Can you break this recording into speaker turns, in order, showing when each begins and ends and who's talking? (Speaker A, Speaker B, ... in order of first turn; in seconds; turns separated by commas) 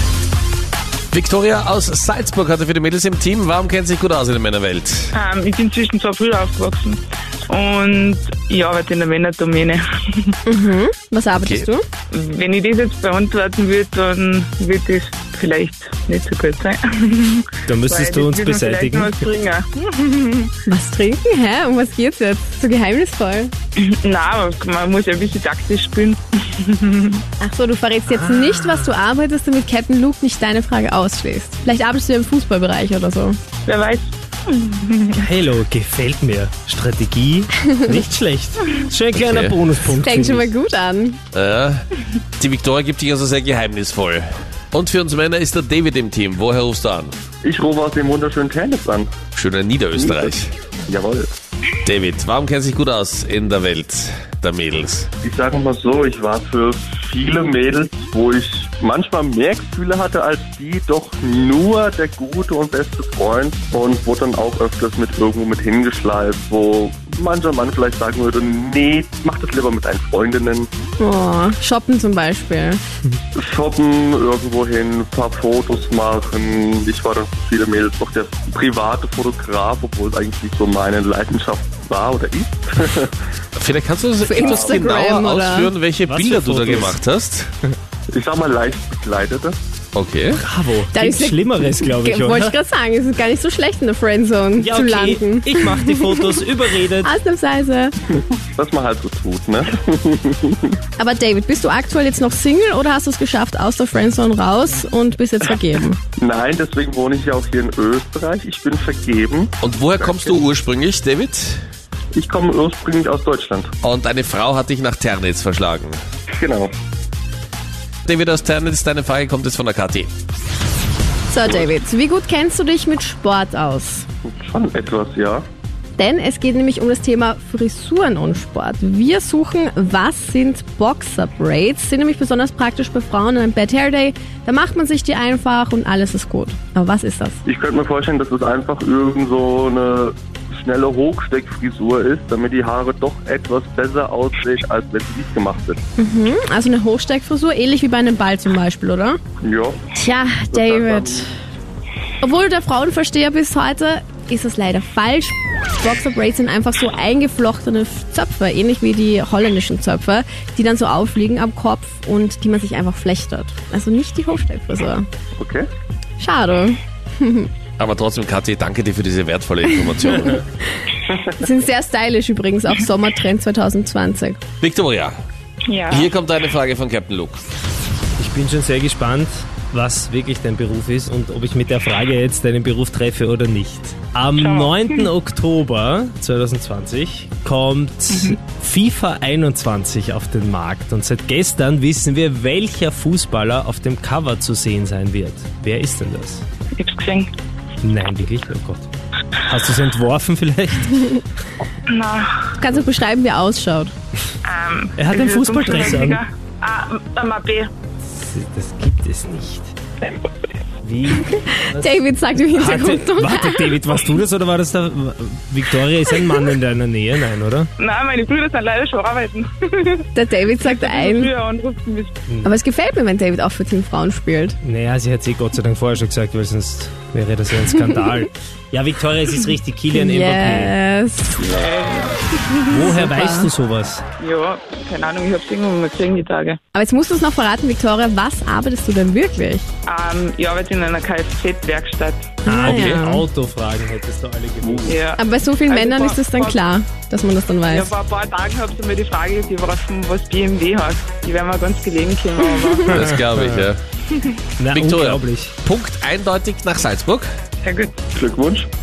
Speaker A: 1.1-5.1, Speaker B: 5.1-10.3, Speaker C: 10.5-11.8, Speaker A: 11.3-11.7, Speaker B: 12.1-20.5, Speaker D: 17.7-19.3, Speaker C: 20.7-23.5, Speaker B: 23.8-27.2, Speaker C: 27.4-33.4, Speaker D: 28.1-28.9, Speaker B: 33.7-35.3, Speaker D: 35.2-40.5, Speaker A: 39.1-39.7, Speaker C: 39.9-41.2, Speaker A: 41.3-41.8, Speaker A: 42.4-47.2, Speaker E: 47.4-49.1, Speaker A: 49.4-50.5, Speaker E: 50.0-50.4, Speaker E: 50.9-51.3, Speaker A: 51.9-55.1, Speaker E: 55.2-70.7, Speaker C: 71.0-72.8, Speaker E: 73.3-83.2, Speaker A: 83.6-87.5, Speaker C: 84.2-85.7, Speaker E: 84.4-84.8, Speaker D: 86.1-87.0, Speaker E: 88.1-89.6, Speaker A: 89.9-90.4, Speaker D: 90.3-92.6, Speaker C: 90.9-96.5, Speaker D: 94.6-97.1, Speaker C: 97.0-98.0, Speaker E: 98.1-100.8, Speaker C: 101.0-106.0, Speaker E: 106.2-110.4, Speaker A: 109.6-111.6, Speaker E: 112.1-113.7, Speaker A: 113.8-116.0, Speaker E: 116.4-116.7, Speaker A: 118.1-120.1, Speaker C: 121.3-124.1, Speaker E: 124.3-125.5, Speaker C: 126.0-137.4, Speaker E: 137.4-145.8, Speaker C: 146.0-149.2, Speaker E: 149.4-149.9, Speaker C: 150.0-151.3, Speaker E: 150.5-151.3, Speaker C: 152.2-165.1, Speaker E: 165.4-165.7, Speaker C: 166.2-167.5, Speaker A: 167.8-170.4, Speaker C: 171.4-174.4, Speaker A: 174.6-175.2, Speaker B: 175.7-176.1, Speaker A: 175.9-177.4, Speaker D: 178.2-196.4, Speaker B: 184.4-185.1, Speaker B: 188.1-188.4, Speaker B: 196.8-197.3, Speaker D: 197.8-198.9, Speaker D: 199.4-201.2, Speaker B: 201.9-202.3, Speaker C: 202.6-203.9, Speaker B: 204.4-207.7, Speaker D: 205.0-206.2, Speaker D: 208.2-209.7, Speaker D: 210.8-217.7, Speaker C: 211.3-214.0, Speaker B: 217.8-220.1, Speaker C: 220.2-221.3, Speaker B: 220.6-222.2, Speaker C: 222.4-224.6, Speaker D: 224.6-230.8, Speaker C: 229.9-231.4, Speaker B: 231.4-232.7, Speaker C: 232.5-233.5, Speaker D: 232.7-234.0, Speaker B: 234.2-236.6, Speaker C: 236.7-239.7, Speaker B: 239.9-242.4, Speaker C: 242.5-243.3, Speaker D: 242.5-245.1, Speaker E: 244.6-244.9, Speaker B: 244.9-246.6, Speaker C: 245.2-247.9, Speaker B: 247.7-253.1, Speaker A: 252.9-253.8, Speaker D: 253.0-253.7, Speaker D: 254.6-255.6, Speaker A: 254.7-257.3, Speaker B: 257.6-257.9, Speaker E: 258.1-258.7